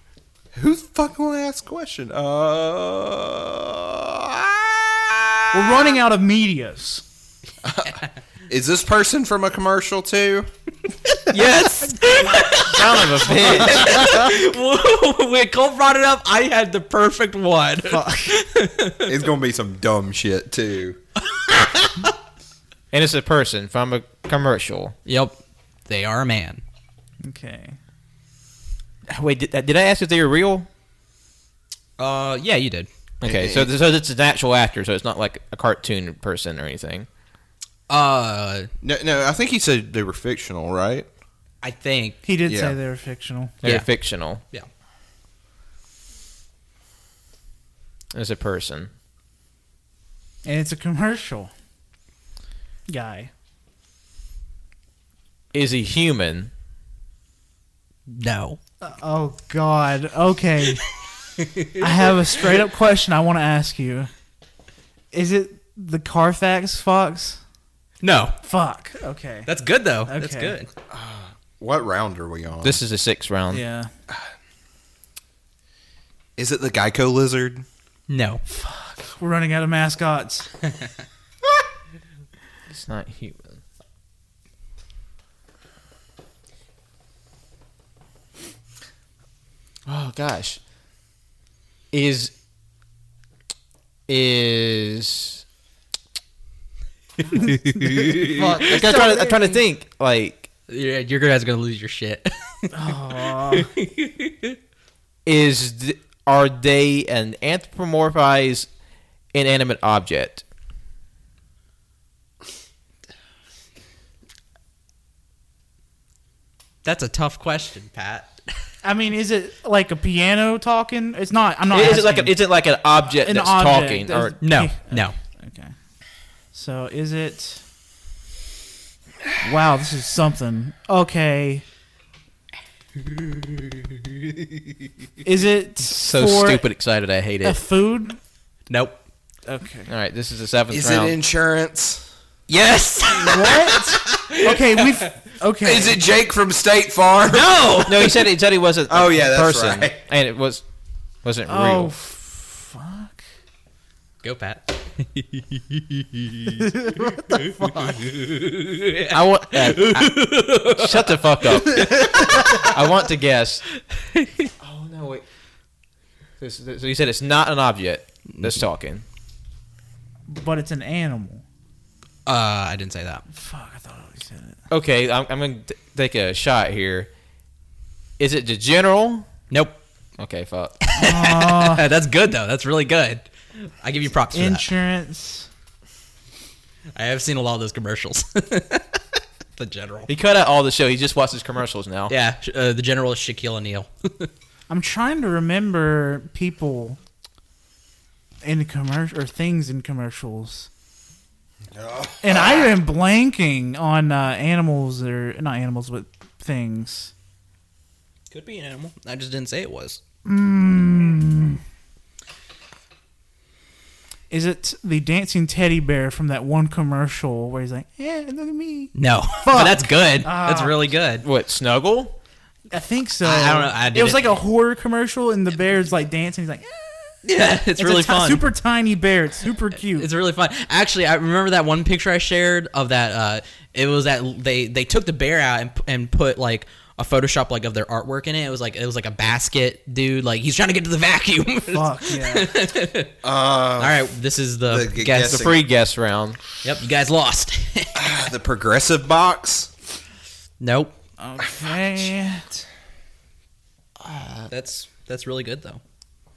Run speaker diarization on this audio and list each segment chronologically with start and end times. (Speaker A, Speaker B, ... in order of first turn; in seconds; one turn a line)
Speaker A: 0.5-5.7
Speaker B: 5.5-7.0
Speaker A: 7.6-10.5
Speaker C: 11.2-19.2
Speaker D: 12.6-14.1
Speaker B: 17.9-18.4
Speaker A: 19.1-21.0
Speaker C: 21.3-22.1
Speaker D: 22.9-24.9
Speaker C: 25.1-26.6
Speaker B: 27.2-27.8
Speaker D: 29.1-30.7
Speaker C: 32.0-32.9
Speaker D: 33.2-37.1
Speaker A: 33.2-33.7
Speaker C: 37.9-38.7
Speaker A: 38.8-41.1
Speaker C: 41.6-42.2
Speaker B: 42.2-43.5
Speaker A: 42.5-42.8
Speaker D: 43.6-44.4
Speaker D: 48.1-48.9
Speaker B: 50.5-51.5
Speaker B: 52.9-53.3
Speaker D: 55.5-56.5
Speaker C: 58.1-58.6
Speaker B: 58.8-60.8
Speaker C: 61.4-62.1
Speaker B: 61.7-64.1
Speaker B: 65.1-67.4
Speaker C: 68.0-68.4
Speaker B: 68.4-69.5
Speaker C: 69.5-70.7
Speaker B: 70.1-70.6
Speaker A: 70.9-72.8
Speaker D: 72.6-73.6
Speaker B: 73.5-73.9
Speaker A: 76.4-77.7
Speaker C: 78.1-78.4
Speaker B: 78.5-80.5
Speaker D: 82.7-83.6
Speaker D: 89.9-90.6
Speaker D: 91.9-92.3
Speaker D: 94.1-95.4
Speaker B: 97.3-99.6
Speaker C: 97.4-98.1
Speaker D: 97.7-100.5
Speaker C: 100.7-104.6
Speaker B: 102.7-103.7
Speaker D: 105.2-108.7
Speaker D: 109.3-110.5
Speaker C: 116.8-118.5
Speaker B: 118.8-122.3
Speaker D: 121.7-124.4
Speaker B: 123.2-125.7
Speaker C: 124.4-125.2
Speaker B: 126.5-127.6
Speaker B: 129.4-131.6
Speaker B: 135.2-136.6
Speaker D: 136.0-137.6
Speaker B: 137.4-138.2
Speaker C: 138.7-139.0
Speaker B: 139.5-139.9
Speaker D: 139.9-141.2
Speaker A: 140.7-142.1
Speaker C: 142.5-145.0
Speaker B: 143.2-146.0
Speaker A: 145.6-147.6
Speaker C: 147.3-148.3
Speaker D: 147.8-150.6
Speaker A: 148.9-150.0
Speaker D: 151.2-151.9
Speaker B: 151.5-153.2
Speaker C: 154.2-162.7
Speaker B: 156.6-158.0
Speaker D: 159.1-160.1
Speaker D: 160.7-163.6
Speaker B: 161.8-162.5
Speaker D: 164.6-165.2
Speaker D: 166.4-169.0
Speaker B: 170.3-171.4
Speaker C: 172.3-173.2
Speaker B: 173.3-174.6
Speaker D: 174.7-177.1
Speaker D: 178.2-179.3
Speaker C: 179.5-179.8
Speaker D: 180.2-180.8
Speaker C: 180.8-184.7
Speaker B: 180.9-181.8
Speaker B: 184.3-185.5
Speaker C: 186.9-189.0
Speaker C: 189.6-190.1
Speaker D: 190.1-192.1
Speaker C: 192.1-194.3
Speaker B: 194.7-197.0
Speaker B: 198.4-200.7
Speaker A: 201.7-202.7
Speaker B: 202.2-207.1
Speaker C: 208.3-210.0
Speaker B: 210.3-211.6
Speaker B: 214.3-220.8
Speaker C: 218.9-221.2
Speaker D: 221.2-222.2
Speaker B: 222.7-227.2
Speaker C: 223.2-224.4
Speaker C: 227.2-228.4
Speaker B: 227.8-230.1
Speaker C: 229.8-243.2
Speaker B: 241.7-242.6
Speaker A: 243.2-244.0
Speaker C: 243.8-245.5
Speaker A: 244.7-245.6
Speaker D: 245.2-246.4
Speaker C: 246.6-248.0
Speaker A: 247.9-249.7
Speaker C: 250.6-250.9
Speaker B: 251.2-252.5
Speaker D: 254.1-254.4
Speaker C: 254.5-255.8